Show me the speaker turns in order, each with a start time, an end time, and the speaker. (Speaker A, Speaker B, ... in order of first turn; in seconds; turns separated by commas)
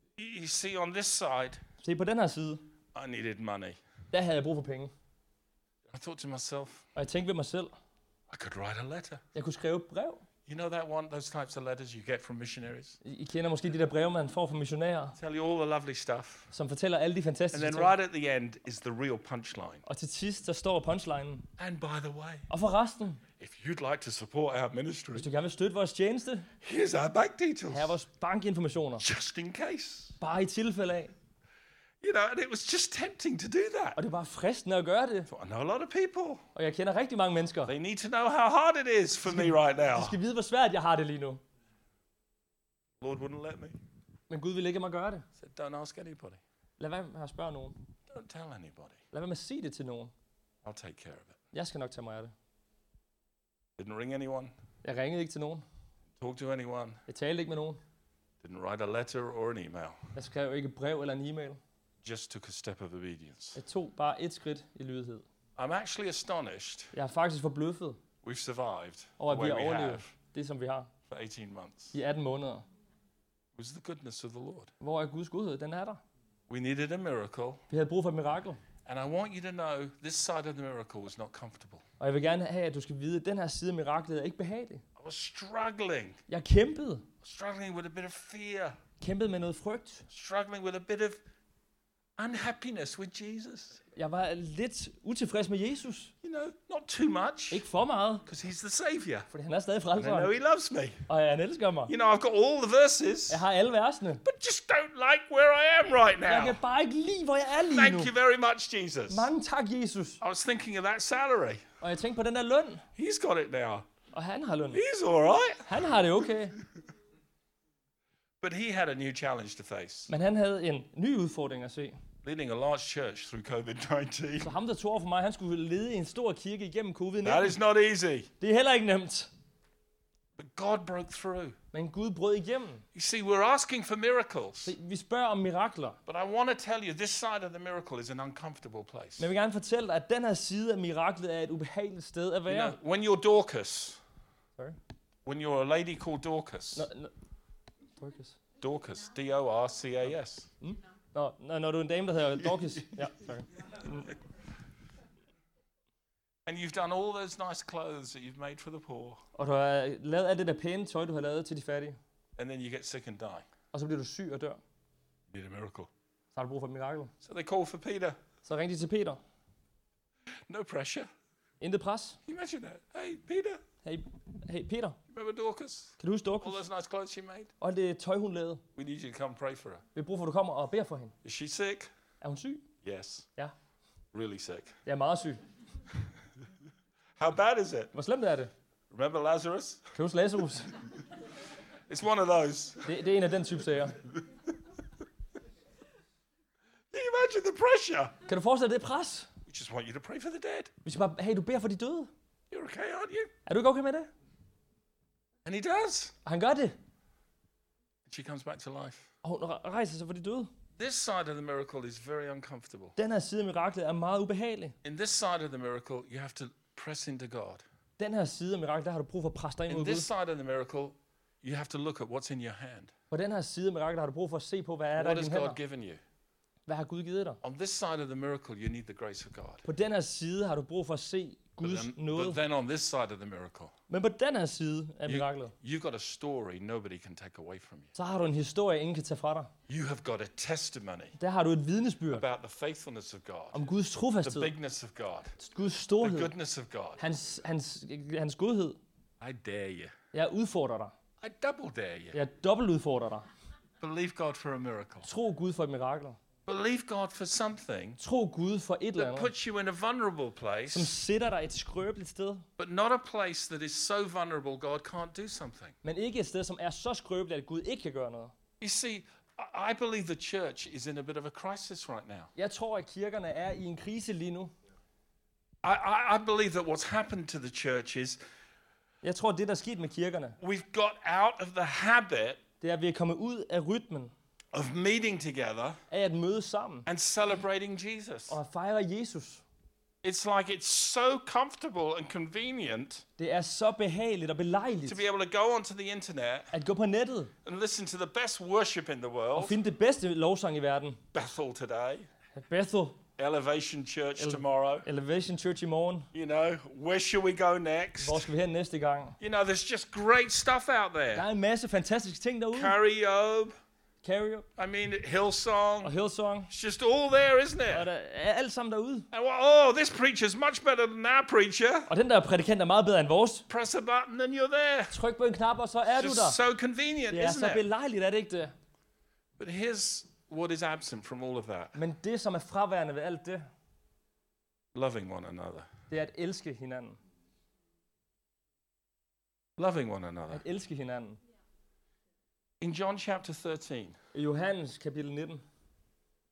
Speaker A: 0.2-1.6, Speaker B: 1.8-2.6, Speaker A: 3.0-3.8, Speaker B: 4.1-4.9, Speaker A: 5.9-6.9, Speaker B: 7.0-7.7, Speaker A: 8.3-9.2, Speaker B: 9.3-10.2, Speaker A: 10.5-13.0, Speaker B: 13.0-15.2, Speaker A: 15.2-16.5, Speaker B: 16.5-17.9, Speaker A: 17.5-19.8, Speaker B: 19.9-21.5, Speaker A: 21.6-22.5, Speaker B: 22.5-23.2, Speaker A: 23.4-25.3, Speaker B: 25.1-26.5, Speaker A: 26.6-27.9, Speaker B: 27.7-29.1, Speaker A: 29.0-30.1, Speaker B: 30.2-31.1, Speaker A: 32.0-34.0, Speaker B: 34.0-35.3, Speaker A: 35.3-36.4, Speaker B: 36.5-37.7, Speaker A: 37.7-40.2, Speaker B: 39.3-41.4, Speaker A: 43.0-43.8, Speaker B: 44.3-45.3, Speaker A: 45.4-46.4, Speaker B: 46.8-47.8, Speaker A: 48.1-49.0, Speaker B: 49.1-50.1, Speaker A: 50.6-51.4, Speaker B: 51.5-52.3, Speaker A: 53.8-54.5, Speaker B: 54.8-55.6, Speaker A: 56.2-57.0, Speaker B: 57.1-57.8, Speaker A: 58.4-60.1, Speaker B: 60.1-61.6, Speaker A: 62.0-63.6, Speaker B: 63.6-65.2, Speaker A: 65.6-66.9, Speaker B: 66.9-68.0, Speaker A: 68.2-70.1, Speaker B: 69.2-70.9, Speaker A: 71.1-72.0, Speaker B: 71.9-72.6, Speaker A: 73.6-74.7, Speaker B: 74.8-76.0, Speaker A: 76.5-77.6, Speaker B: 77.7-78.6, Speaker A: 78.9-81.8, Speaker B: 82.0-84.8, Speaker A: 85.0-86.2, Speaker B: 86.3-87.1, Speaker A: 87.2-88.8, Speaker B: 89.0-90.1, Speaker A: 90.1-91.2, Speaker A: 92.2-93.8, Speaker B: 94.0-96.1, Speaker A: 96.2-97.6, Speaker B: 97.5-98.2, Speaker A: 98.3-99.3, Speaker B: 99.3-100.3, Speaker A: 100.0-101.0, Speaker B: 101.1-101.9, Speaker A: 101.9-103.4, Speaker B: 103.3-104.2, Speaker A: 104.2-106.6, Speaker B: 106.3-108.1, Speaker A: 107.6-109.3, Speaker B: 109.1-110.2, Speaker A: 110.2-111.6, Speaker B: 111.8-112.8, Speaker A: 113.0-113.9, Speaker B: 114.1-114.8, Speaker A: 114.7-115.8, Speaker B: 115.7-116.6, Speaker A: 118.4-120.1, Speaker B: 120.1-122.0, Speaker A: 122.2-124.5, Speaker B: 124.4-127.6, Speaker A: 127.2-128.3, Speaker B: 128.4-129.3, Speaker A: 130.4-131.6, Speaker B: 131.7-132.8, Speaker A: 132.9-134.8, Speaker B: 134.7-136.0, Speaker A: 136.1-139.3, Speaker B: 139.2-142.8, Speaker A: 142.5-144.0, Speaker A: 145.3-146.9, Speaker B: 146.8-147.1, Speaker B: 148.0-148.4, Speaker A: 148.6-150.5, Speaker B: 150.6-154.1, Speaker A: 156.5-159.2, Speaker B: 159.4-162.0, Speaker A: 162.4-163.4, Speaker B: 163.7-164.6, Speaker A: 165.3-165.9, Speaker B: 166.3-167.1, Speaker A: 167.2-168.2, Speaker B: 168.4-169.2, Speaker A: 170.5-171.1, Speaker B: 171.6-172.2, Speaker A: 172.3-173.6, Speaker B: 173.8-175.0, Speaker A: 175.1-177.5, Speaker B: 176.0-176.6, Speaker B: 177.6-178.6, Speaker A: 178.8-179.8, Speaker B: 179.9-181.2, Speaker A: 181.2-181.9, Speaker B: 182.2-182.7, Speaker A: 182.8-183.3, Speaker A: 184.1-184.8, Speaker B: 184.9-185.4, Speaker A: 187.2-187.9, Speaker B: 187.9-188.5, Speaker A: 188.9-189.9, Speaker B: 189.9-190.8, Speaker A: 191.9-192.9, Speaker B: 192.8-194.0, Speaker A: 196.9-198.2, Speaker B: 198.3-199.3, Speaker A: 199.5-200.7, Speaker B: 200.8-202.1, Speaker A: 202.5-203.3, Speaker B: 203.5-204.1, Speaker A: 205.4-206.1, Speaker B: 206.2-206.8, Speaker A: 208.1-209.1, Speaker B: 209.2-210.5, Speaker A: 210.8-212.9, Speaker B: 213.0-214.8, Speaker A: 214.8-217.6, Speaker B: 218.0-220.1, Speaker A: 219.7-222.9, Speaker B: 223.1-225.6, Speaker A: 225.0-226.0, Speaker B: 226.7-227.4, Speaker A: 227.4-229.7, Speaker B: 229.7-232.4, Speaker A: 231.6-233.7, Speaker B: 233.9-235.5, Speaker A: 235.1-237.9, Speaker B: 237.9-239.5, Speaker A: 239.7-241.2, Speaker B: 241.2-242.2, Speaker A: 242.1-243.7, Speaker B: 243.5-244.5, Speaker A: 244.2-245.3, Speaker B: 245.4-246.3, Speaker A: 246.0-247.0, Speaker B: 247.0-248.8, Speaker A: 249.2-249.9, Speaker B: 250.1-250.9, Speaker A: 251.2-252.2, Speaker B: 252.1-253.3, Speaker A: 253.8-255.1, Speaker B: 255.0-256.2, Speaker A: 256.5-258.0, Speaker B: 258.0-259.3, Speaker A: 259.0-261.0, Speaker B: 260.7-262.5, Speaker A: 262.6-265.8, Speaker B: 265.8-268.3, Speaker A: 268.6-272.3, Speaker B: 272.4-274.5, Speaker A: 275.6-278.2, Speaker B: 279.0-280.4, Speaker A: 280.4-282.4, Speaker B: 282.6-284.1, Speaker A: 284.5-285.8, Speaker B: 285.9-286.9, Speaker A: 286.9-288.4, Speaker B: 288.3-289.4, Speaker A: 290.0-293.1, Speaker B: 293.2-295.0, Speaker A: 294.9-296.5, Speaker B: 296.5-297.3, Speaker A: 297.4-299.6, Speaker B: 299.4-301.0, Speaker A: 301.1-302.1, Speaker B: 302.4-303.0, Speaker A: 303.2-304.9, Speaker B: 304.2-306.1, Speaker A: 306.1-308.3, Speaker B: 308.0-309.2, Speaker A: 309.2-311.3, Speaker B: 311.1-312.8, Speaker A: 312.5-313.5, Speaker B: 314.0-314.5, Speaker A: 314.6-315.9, Speaker B: 315.8-316.5, Speaker A: 316.5-317.9, Speaker B: 317.7-319.1, Speaker A: 319.1-321.9, Speaker B: 321.9-323.4, Speaker A: 323.5-325.0, Speaker B: 324.9-326.4, Speaker A: 325.9-327.7, Speaker B: 327.1-328.5, Speaker A: 329.4-331.8, Speaker B: 331.8-333.5, Speaker A: 334.7-335.7, Speaker B: 335.9-337.0, Speaker A: 339.6-340.4, Speaker B: 340.3-341.2, Speaker A: 342.6-344.0, Speaker B: 344.1-345.4